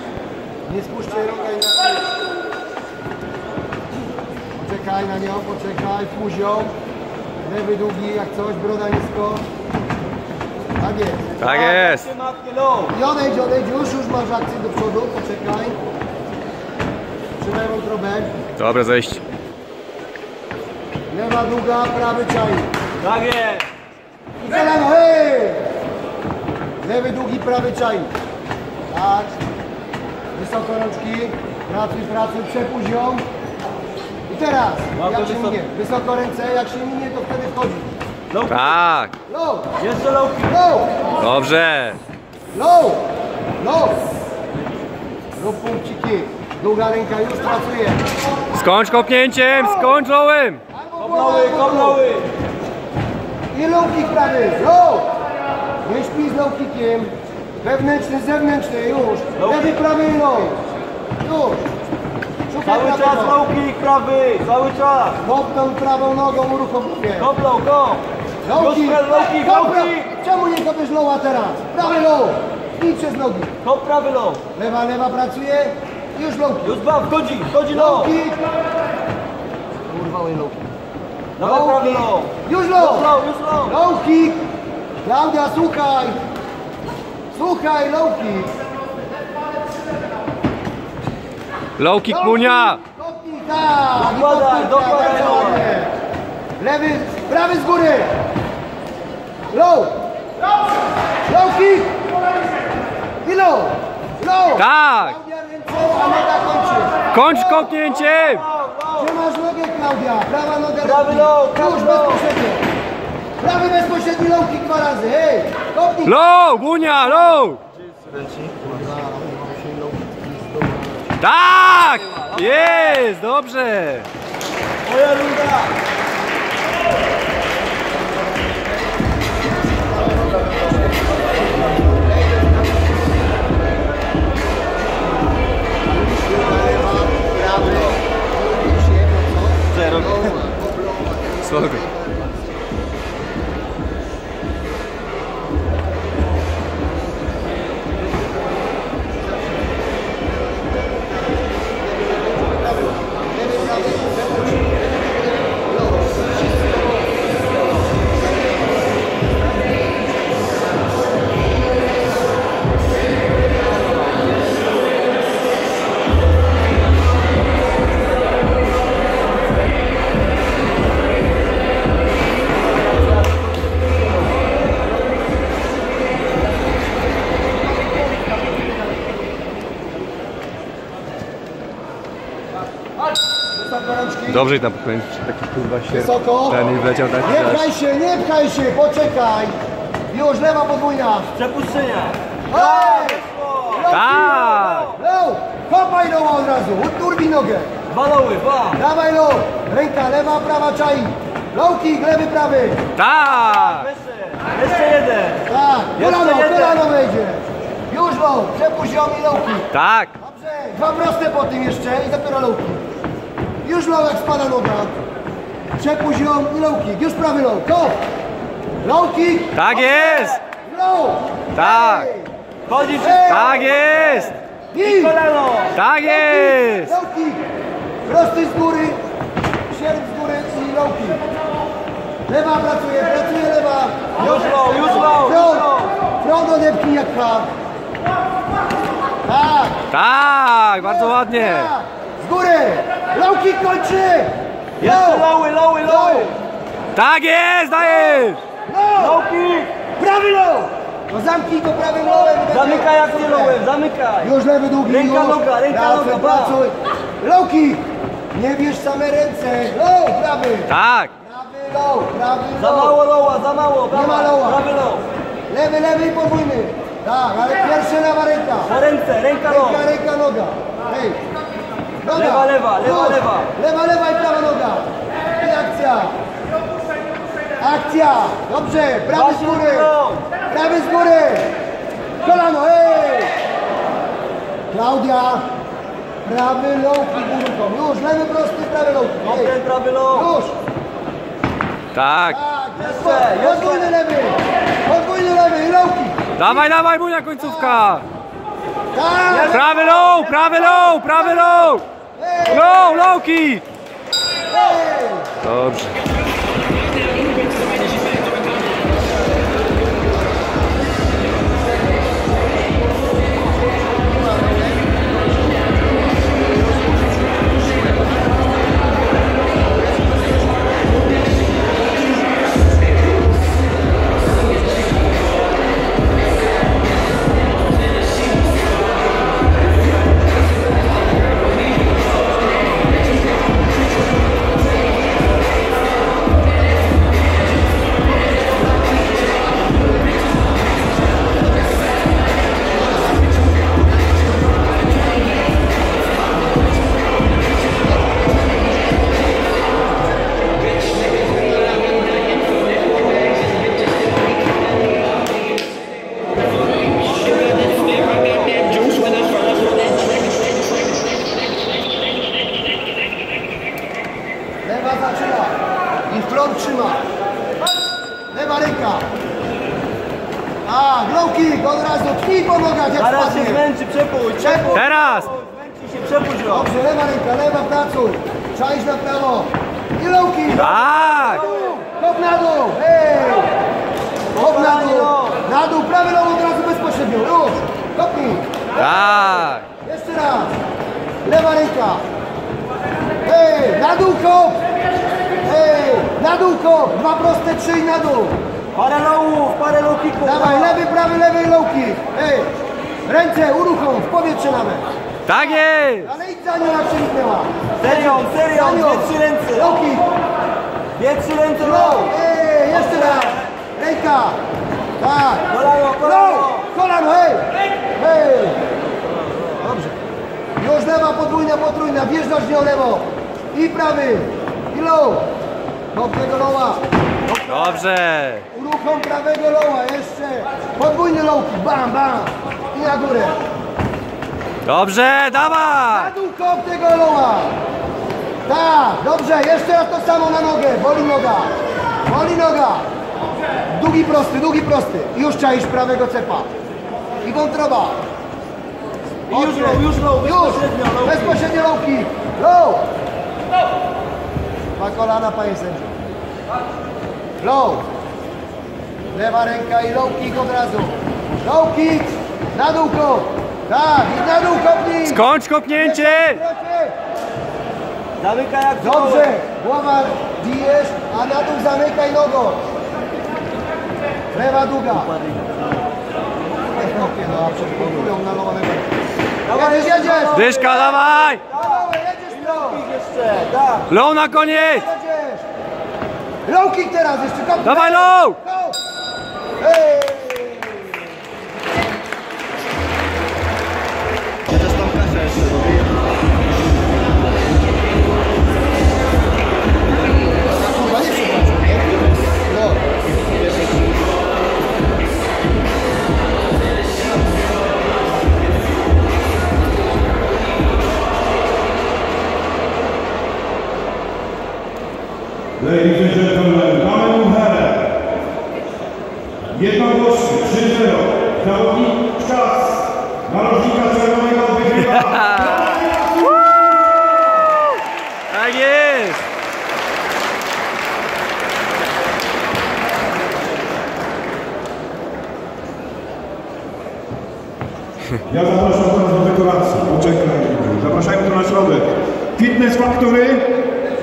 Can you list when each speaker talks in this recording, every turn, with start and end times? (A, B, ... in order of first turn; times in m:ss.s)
0:00.6-0:02.0 A
0:04.6-0:06.7 A
0:07.4-0:09.4 A
0:10.8-0:11.4 A
0:11.4-0:12.1 B
0:11.4-0:12.9 C
0:12.9-0:15.8 A
0:17.4-0:18.4 A
0:18.6-0:19.2 B
0:21.1-0:22.7 A
0:23.0-0:23.6 C
0:24.4-0:25.8 A
0:26.8-0:28.1 A
0:28.9-0:29.4 A
0:30.3-0:33.2 A
0:34.3-0:37.9 A
0:35.0-0:35.6 C
0:38.3-0:38.8 C
0:38.5-0:39.1 B
0:39.2-0:39.8 A
0:39.8-0:40.5 C
0:40.5-0:40.9 A
0:41.2-0:42.0 B
0:42.5-0:43.1 A
0:43.6-0:44.0 A
0:45.4-0:48.0 A
0:48.5-0:50.6 B
0:50.7-0:52.0 A
0:51.0-0:52.2 C
0:53.5-0:55.1 A
0:55.8-1:00.6 A
0:59.4-0:59.7 C
1:01.2-1:01.7 A
1:02.5-1:03.4 A
1:02.6-1:05.2 C
1:05.2-1:07.3 A
1:07.2-1:08.0 C
1:08.4-1:13.6 A
1:08.5-1:10.0 C
1:13.6-1:14.4 C
1:14.5-1:16.8 A
1:16.6-1:18.1 C
1:17.7-1:18.4 A
1:19.9-1:20.6 A
1:21.4-1:23.7 C
1:21.4-1:24.5 A
1:25.0-1:26.2 A
1:27.3-1:28.5 A
1:31.8-1:32.8 B
1:32.1-1:35.9 A
1:34.0-1:35.7 C
1:36.6-1:38.2 A
1:39.5-1:40.0 A
1:41.2-1:42.0 A
1:43.2-1:47.5 A
1:44.6-1:45.2 B
1:47.1-1:48.4 B
1:47.8-1:49.0 C
1:49.0-1:52.7 A
1:50.8-1:52.2 C
1:53.4-1:56.2 A
1:56.1-1:57.6 B
1:58.6-2:01.1 A
2:01.2-2:04.1 B
2:04.8-2:05.7 C
2:15.9-2:22.4 A
2:19.8-2:20.2 C
2:21.5-2:21.8 B
2:32.0-2:34.8 A
3:03.5-3:04.4 A
3:04.3-3:07.6 B
3:05.9-3:09.6 A
3:10.1-3:11.4 A
3:11.4-3:14.0 C
3:12.5-3:17.7 A
3:13.9-3:14.9 B
3:14.7-3:15.0 C
3:17.9-3:18.8 C
3:18.7-3:22.9 A
3:23.0-3:23.9 B
3:23.2-3:25.4 C
3:25.4-3:32.9 A
3:26.0-3:26.8 C
3:29.7-3:30.1 B
3:33.6-3:35.0 A
3:35.7-3:38.0 A
3:38.8-3:39.7 A
3:39.5-3:40.4 B
3:39.7-3:40.4 C
3:40.5-3:42.3 A
3:41.5-3:42.1 B
3:42.7-3:45.8 C
3:42.9-3:43.4 A
3:43.2-3:44.3 B
3:44.7-3:45.2 A
3:45.7-3:46.9 B
3:46.0-3:47.4 A
3:48.0-3:49.0 A
3:49.7-3:51.2 A
3:52.3-3:57.5 A
3:54.2-3:55.9 C
3:59.2-3:59.9 A
3:59.9-4:01.7 B
4:00.8-4:05.3 A
4:04.8-4:06.4 C
4:05.8-4:06.3 A
4:06.9-4:08.4 B
4:08.6-4:09.2 A
4:09.0-4:09.8 C
4:09.9-4:13.6 A
4:12.4-4:14.3 C
4:14.2-4:23.0 A
4:14.8-4:16.6 C
4:20.7-4:21.1 B
4:22.6-4:25.0 C
4:23.9-4:24.7 A
4:25.5-4:28.8 A
4:28.7-4:29.8 C
4:29.4-4:31.2 A
4:32.0-4:36.2 A
4:32.1-4:33.5 C
4:37.6-4:41.5 A
4:39.1-4:40.3 C
4:42.2-4:43.3 A
4:44.7-4:45.5 A
4:46.2-4:49.6 A
4:49.2-4:50.3 C
4:50.1-4:50.6 A
4:51.9-4:52.4 B
4:52.2-4:56.7 A
4:52.8-4:53.9 C
4:56.4-4:58.0 B
4:57.4-4:57.8 A
4:58.9-5:00.0 A
4:59.3-5:00.5 C
4:59.5-5:01.8 B
5:02.2-5:03.1 A
5:02.5-5:03.6 B
5:04.5-5:05.4 A
5:05.4-5:05.9 B
5:14.2-5:15.0 A
6:04.6-6:07.0 A
6:08.3-6:09.0 A
6:10.6-6:13.6 A
6:13.0-6:16.6 C
6:14.4-6:14.8 A
6:14.7-6:15.3 B
6:16.5-6:20.7 A
6:20.6-6:21.4 B
6:20.8-6:21.7 C
6:21.4-6:23.5 A
6:24.4-6:25.4 C
6:24.4-6:28.6 A
6:28.8-6:29.6 B
6:29.7-6:30.5 A
6:31.2-6:32.0 A
6:33.2-6:34.6 A
6:35.4-6:38.4 A
6:38.7-6:40.8 C
6:40.2-6:42.5 A
6:43.0-6:50.1 A
6:45.3-6:46.1 B
6:47.8-6:49.7 C
6:51.0-6:52.1 C
6:51.6-6:54.4 A
6:52.8-6:53.4 C
6:55.0-6:58.6 A
6:55.5-6:56.7 C
7:00.6-7:05.3 A
7:05.9-7:07.6 A
7:07.5-7:08.4 B
7:08.5-7:13.4 A
7:14.6-7:16.1 B
7:15.9-7:17.6 A
7:18.4-7:21.5 A
7:22.0-7:22.9 A
7:23.7-7:26.5 A
7:27.2-7:28.0 A
7:29.3-7:31.4 C
7:29.3-7:32.9 A
7:34.8-7:36.0 A
7:37.4-7:37.9 A
7:39.1-7:46.9 A
7:45.0-7:46.4 B
7:48.2-7:49.3 C
7:48.8-7:52.6 A
7:54.3-7:55.1 A
7:56.7-8:00.4 A
7:59.5-8:03.9 C
8:00.3-8:01.4 B
8:01.4-8:02.8 A
8:03.9-8:04.8 B
8:04.2-8:05.4 A
8:06.4-8:08.8 A
8:07.6-8:08.4 B
8:09.6-8:10.9 A
8:14.6-8:15.5 C
8:20.6-8:22.8 A
8:35.8-8:36.3 D
8:40.2-8:40.7 B
8:43.6-8:44.0 D
8:44.4-8:46.6 B
8:48.3-8:49.2 B
8:58.4-9:01.9 D
9:02.4-9:03.4 D